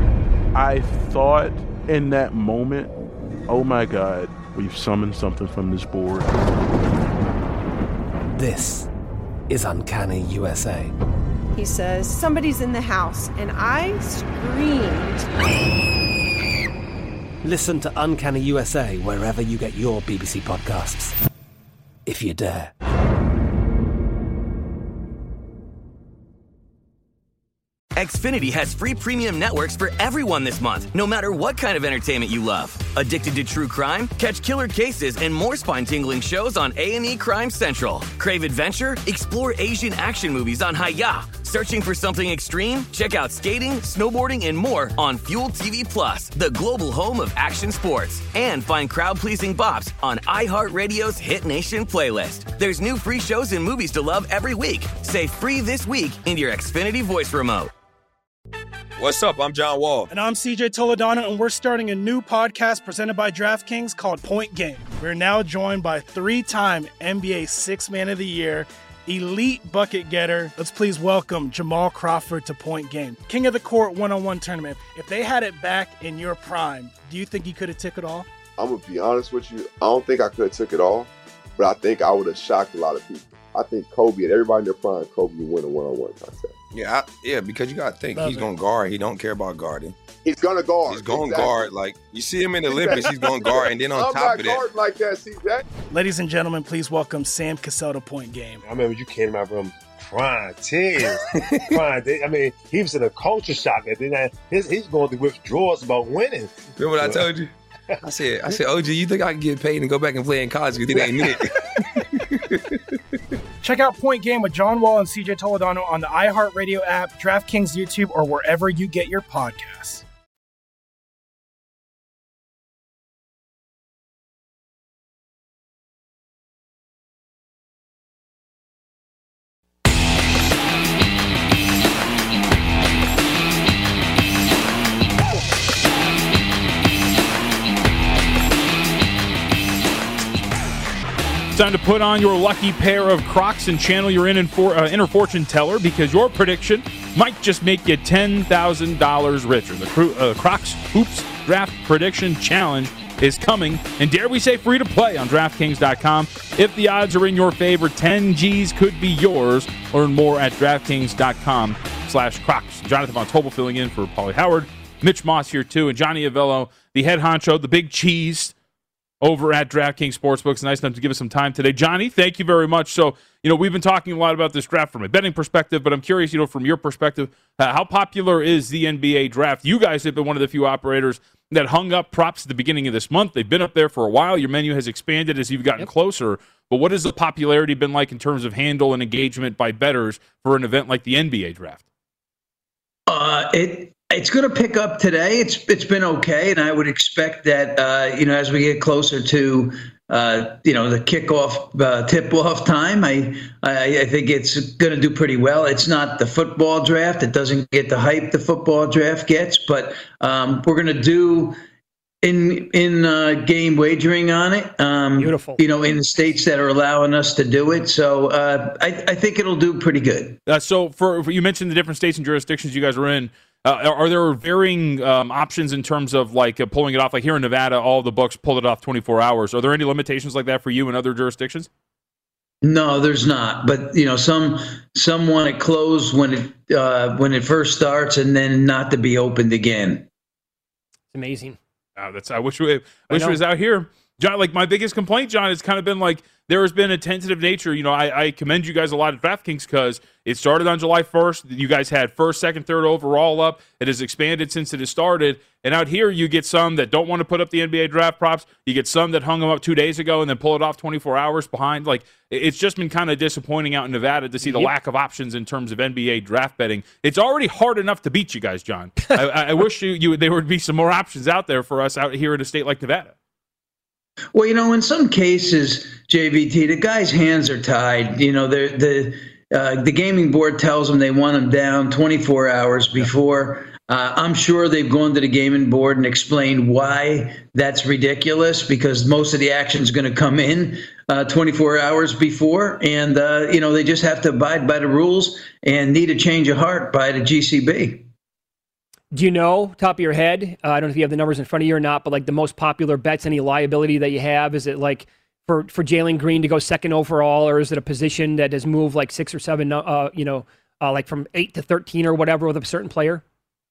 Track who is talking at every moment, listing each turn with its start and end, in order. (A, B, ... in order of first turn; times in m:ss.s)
0:00.5-0:02.9 A
0:03.5-0:06.3 A
0:08.3-0:08.9 B
0:09.5-0:10.9 B
0:11.5-0:15.2 C
0:17.4-0:21.1 B
0:22.0-0:22.7 B
0:28.0-0:57.7 D
0:59.0-1:00.1 E
1:00.1-1:18.3 F
1:18.6-1:26.5 G
1:26.7-1:30.0 E
1:30.2-1:31.7 G
1:30.8-1:34.6 E
1:32.7-1:35.6 G
1:35.9-1:38.6 F
1:38.6-1:47.3 H
1:46.8-1:47.5 E
1:48.0-1:51.5 E
1:51.0-1:51.3 H
1:53.6-2:00.0 F
2:21.5-2:48.5 I
2:49.2-3:11.8 I
3:13.1-3:31.6 J
3:32.2-3:40.4 J
3:35.2-3:35.6 K
3:40.4-3:51.7 I
3:52.6-4:00.0 J
4:01.1-4:01.6 K
4:02.0-4:33.1 I
4:03.1-4:03.4 K
4:24.4-4:24.7 K
4:34.3-4:58.0 J
4:59.1-5:13.2 K